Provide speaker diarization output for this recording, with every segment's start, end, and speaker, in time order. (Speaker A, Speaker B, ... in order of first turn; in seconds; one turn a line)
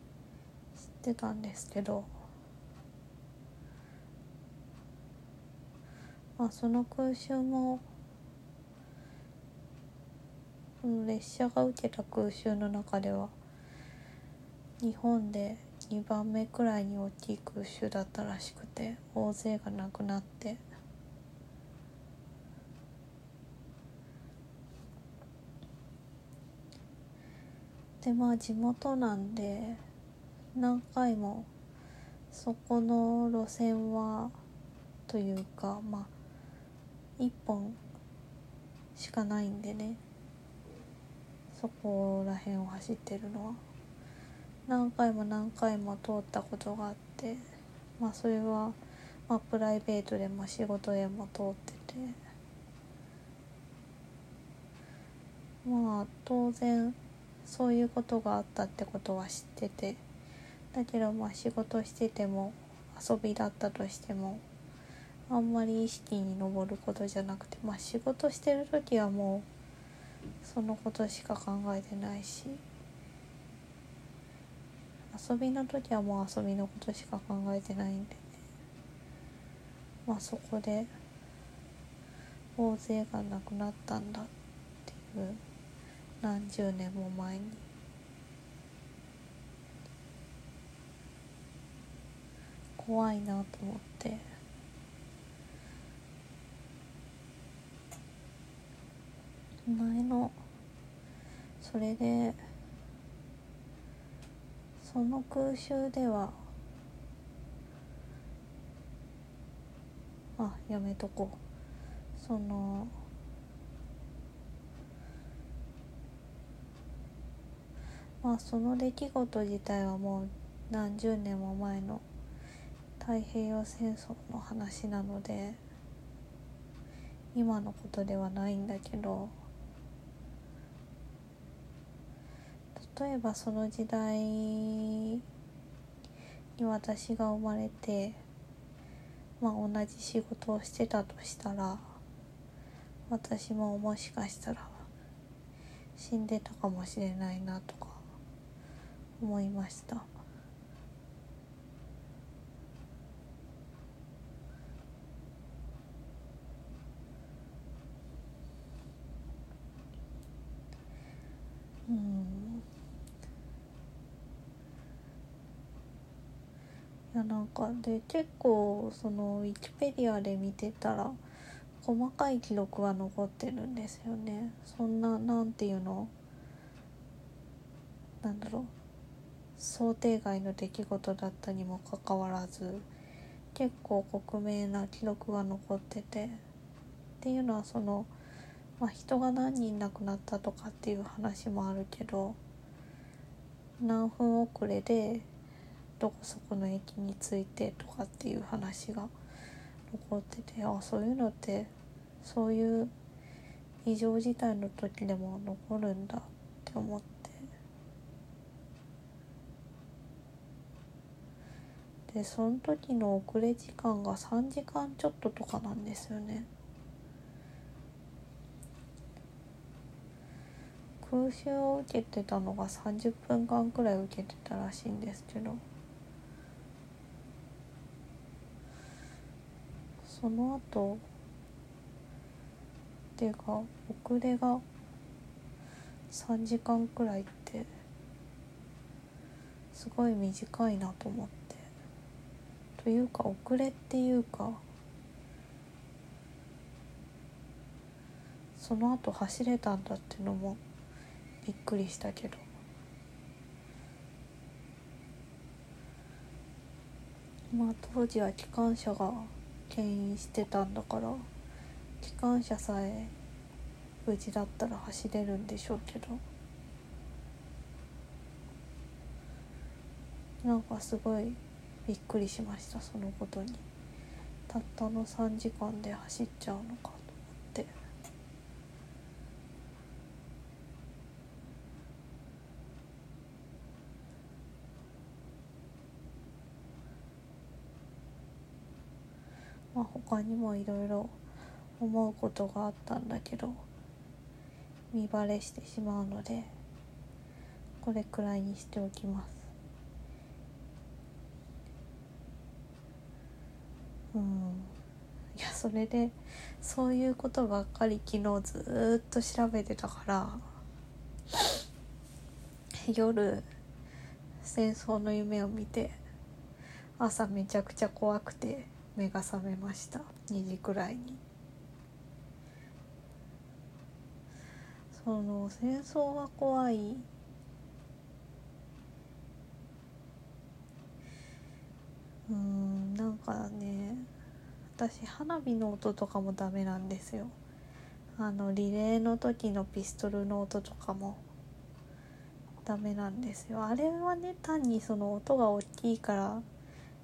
Speaker A: 0.8-2.1
Speaker A: 6.4-7.8
Speaker A: 10.8-13.3
Speaker A: 14.8-20.6
Speaker A: 28.0-29.8
Speaker A: 30.5-31.5
Speaker A: 32.3-34.3
Speaker A: 35.1-36.1
Speaker A: 37.2-37.8
Speaker A: 39.0-40.0
Speaker A: 41.5-43.6
Speaker A: 44.7-47.4
Speaker A: 48.0-52.2
Speaker A: 55.6-60.0
Speaker A: 60.7-64.4
Speaker A: 65.3-69.5
Speaker A: 70.4-72.6
Speaker A: 75.1-78.3
Speaker A: 80.0-80.9
Speaker A: 82.5-84.3
Speaker A: 84.9-85.4
Speaker A: 86.2-87.6
Speaker A: 92.8-94.2
Speaker A: 99.7-100.3
Speaker A: 101.6-102.4
Speaker A: 104.8-106.4
Speaker A: 110.4-111.4
Speaker A: 112.2-112.9
Speaker A: 118.2-122.0
Speaker A: 123.0-125.6
Speaker A: 127.3-129.3
Speaker A: 132.7-135.2
Speaker A: 136.6-138.2
Speaker A: 139.4-141.8
Speaker A: 143.1-144.8
Speaker A: 145.9-148.0
Speaker A: 149.2-150.0
Speaker A: 161.9-162.6
Speaker A: 167.1-171.2
Speaker A: 171.8-176.1
Speaker A: 178.2-178.7
Speaker A: 179.6-182.8
Speaker A: 183.5-186.4
Speaker A: 187.2-188.1
Speaker A: 188.8-192.4
Speaker A: 193.8-195.3
Speaker A: 196.0-199.1
Speaker A: 199.9-201.7
Speaker A: 202.2-202.9
Speaker A: 203.8-207.5
Speaker A: 212.1-216.5
Speaker A: 221.0-225.6
Speaker A: 230.0-231.0
Speaker A: 233.2-234.6
Speaker A: 236.1-237.7
Speaker A: 239.7-241.7
Speaker A: 242.8-244.6
Speaker A: 248.6-250.6
Speaker A: 251.4-252.4
Speaker A: 257.5-261.2
Speaker A: 262.0-263.1
Speaker A: 264.0-266.2
Speaker A: 270.4-273.6
Speaker A: 274.5-277.7
Speaker A: 289.7-291.1
Speaker A: 291.8-293.6
Speaker A: 294.9-296.5
Speaker A: 297.8-299.5
Speaker A: 304.1-304.7
Speaker A: 305.4-310.4
Speaker A: 312.8-313.4
Speaker A: 314.4-316.0
Speaker A: 317.0-321.2
Speaker A: 324.9-327.1
Speaker A: 332.3-334.1
Speaker A: 334.8-337.3
Speaker A: 338.2-341.2
Speaker A: 342.6-346.4